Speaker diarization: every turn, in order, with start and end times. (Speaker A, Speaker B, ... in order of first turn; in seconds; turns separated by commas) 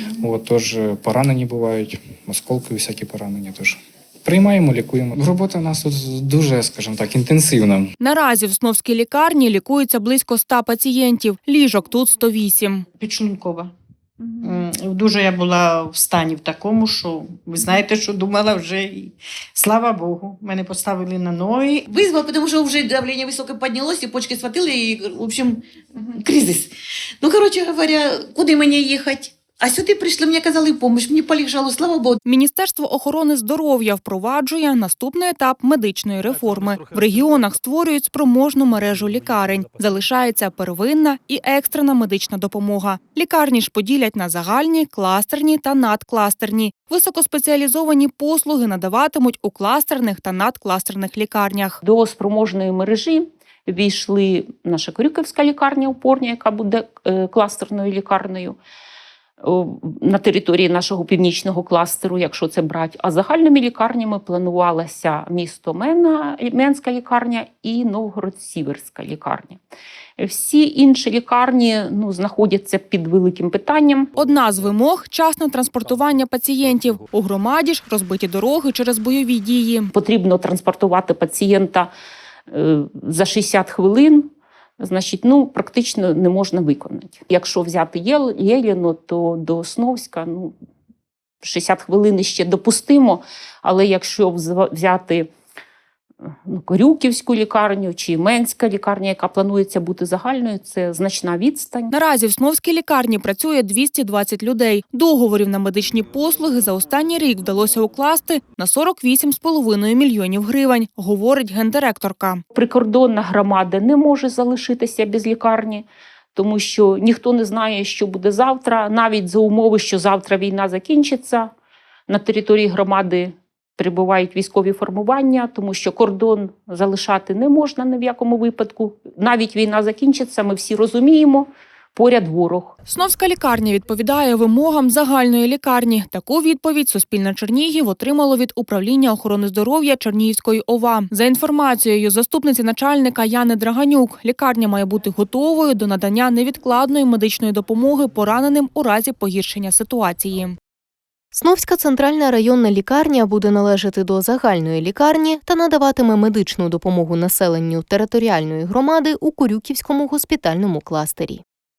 Speaker A: 0.2-7.9, Speaker B: 8.0-12.9, Speaker C: 13.0-13.7, Speaker C: 14.4-21.8, Speaker D: 21.9-25.6, Speaker D: 26.2-26.6, Speaker D: 27.2-32.1, Speaker B: 32.2-51.8, Speaker E: 51.8-58.6, Speaker E: 59.4-69.6, Speaker E: 70.2-74.1, Speaker B: 74.2-79.9, Speaker E: 79.9-81.9, Speaker E: 82.5-90.5, Speaker E: 91.4-95.3, Speaker E: 96.5-101.9, Speaker B: 101.9-112.4, Speaker E: 112.5-121.5, Speaker E: 122.1-132.7, Speaker B: 132.9-150.6, Speaker F: 151.4-161.4